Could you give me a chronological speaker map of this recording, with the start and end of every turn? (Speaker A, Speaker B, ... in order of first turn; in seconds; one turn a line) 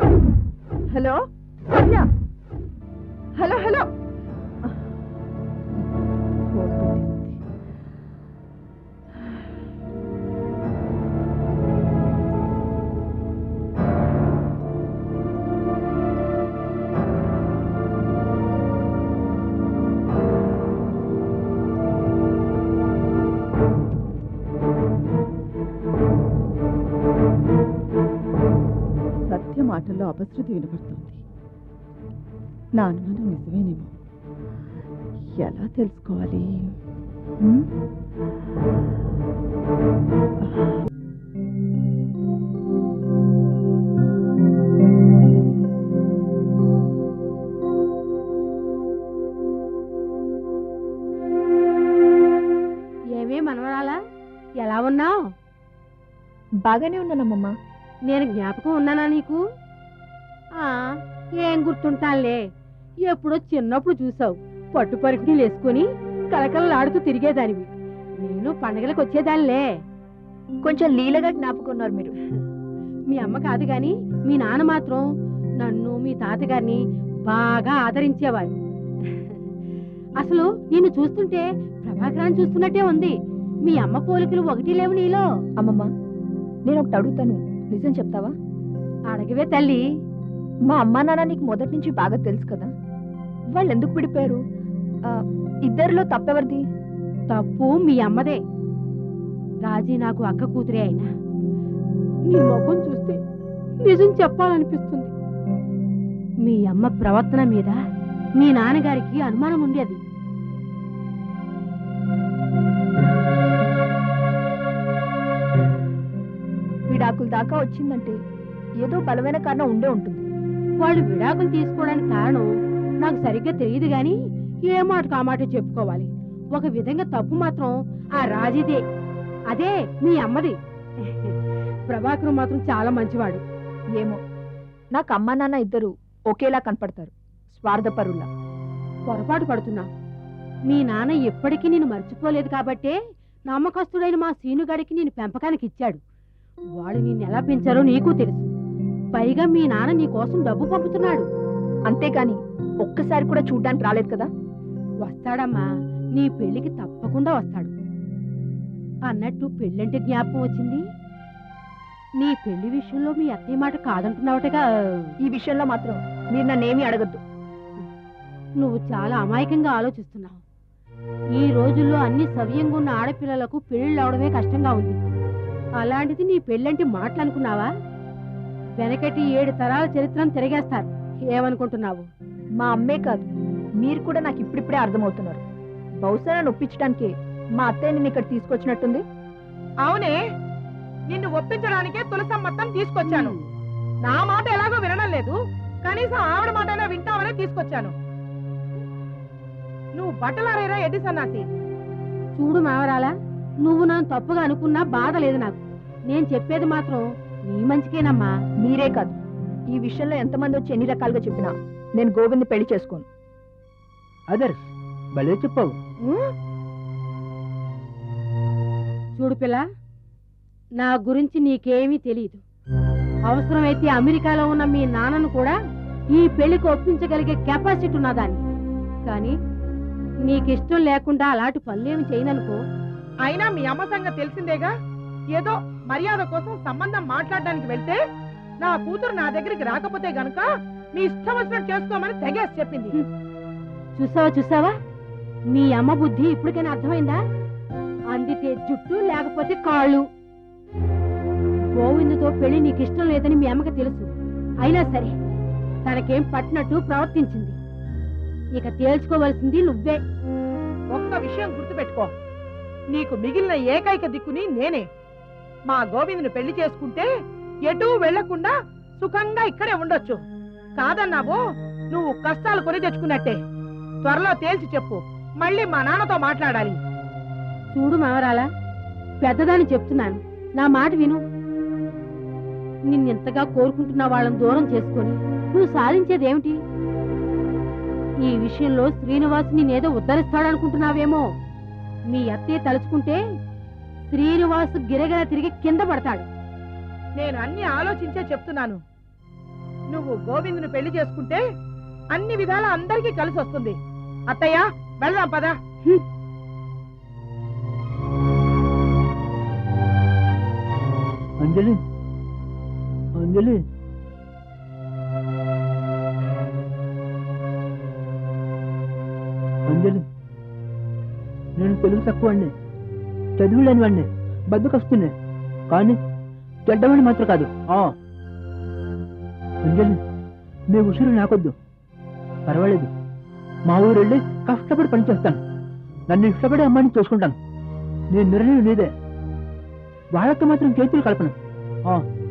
Speaker A: 1.7-2.0
Speaker A: 3.4-3.9
Speaker A: 6.5-7.4
Speaker A: 29.3-31.2
Speaker A: 32.8-33.9
Speaker A: 35.4-36.7
Speaker A: 37.4-37.7
Speaker B: 53.1-54.0
Speaker B: 54.6-55.2
Speaker C: 56.6-57.5
Speaker B: 58.1-59.4
Speaker B: 60.6-60.9
Speaker B: 61.4-62.4
Speaker B: 63.0-67.7
Speaker B: 68.2-69.6
Speaker C: 70.6-72.1
Speaker B: 73.1-75.0
Speaker B: 75.6-78.5
Speaker B: 80.2-85.2
Speaker C: 85.6-85.9
Speaker C: 86.7-88.3
Speaker B: 89.1-89.8
Speaker C: 90.7-92.7
Speaker C: 93.5-94.4
Speaker C: 95.1-96.6
Speaker B: 97.3-98.4
Speaker B: 99.7-101.1
Speaker B: 102.3-103.2
Speaker B: 103.8-105.1
Speaker B: 106.4-107.8
Speaker B: 108.4-110.0
Speaker C: 116.9-118.2
Speaker C: 118.8-120.2
Speaker B: 120.8-122.5
Speaker B: 123.0-128.8
Speaker B: 129.5-131.3
Speaker B: 131.9-133.4
Speaker C: 134.9-138.3
Speaker B: 139.1-139.9
Speaker B: 140.7-143.0
Speaker B: 143.5-146.0
Speaker B: 146.8-148.5
Speaker B: 149.1-151.2
Speaker C: 151.9-154.3
Speaker B: 155.0-157.7
Speaker B: 159.1-160.8
Speaker B: 162.2-165.1
Speaker C: 165.2-167.2
Speaker B: 168.6-170.4
Speaker B: 171.4-175.0
Speaker B: 175.8-177.7
Speaker B: 178.8-182.1
Speaker C: 182.6-183.2
Speaker C: 183.8-185.4
Speaker C: 186.0-189.0
Speaker D: 189.8-190.2
Speaker D: 191.1-193.3
Speaker B: 193.1-193.4
Speaker D: 194.0-197.9
Speaker D: 199.9-201.4
Speaker B: 202.3-203.1
Speaker B: 203.6-208.3
Speaker C: 208.6-209.2
Speaker C: 209.7-213.0
Speaker E: 214.3-215.7
Speaker B: 219.2-219.6
Speaker B: 220.8-222.4
Speaker B: 223.3-225.6
Speaker B: 226.1-228.4
Speaker B: 229.1-229.3
Speaker B: 230.2-232.6
Speaker D: 233.2-234.7
Speaker D: 235.3-238.0
Speaker D: 238.6-242.9
Speaker B: 243.9-244.7
Speaker B: 245.5-247.2
Speaker B: 248.1-250.0
Speaker B: 251.7-254.1
Speaker B: 254.6-255.1
Speaker B: 255.8-257.6
Speaker B: 258.5-260.0
Speaker D: 260.9-262.1
Speaker D: 262.9-264.8
Speaker D: 265.7-267.1
Speaker D: 267.7-270.2
Speaker D: 270.8-271.4
Speaker D: 271.9-273.4
Speaker D: 274.0-276.8
Speaker B: 277.7-278.5
Speaker B: 279.2-281.2
Speaker B: 282.9-286.6
Speaker B: 288.2-291.2
Speaker B: 292.1-293.2
Speaker B: 294.1-296.3
Speaker D: 297.2-298.8
Speaker D: 299.9-301.4
Speaker D: 302.1-303.8
Speaker D: 304.3-305.6
Speaker E: 311.4-311.8
Speaker E: 313.2-313.6
Speaker E: 319.7-320.0
Speaker E: 321.6-322.5
Speaker E: 323.4-325.1
Speaker E: 325.7-326.0
Speaker E: 326.7-327.9
Speaker E: 329.6-330.0
Speaker E: 330.7-331.5
Speaker E: 332.5-332.9
Speaker E: 333.7-335.4
Speaker E: 336.1-337.4
Speaker E: 338.1-338.9
Speaker E: 340.1-341.3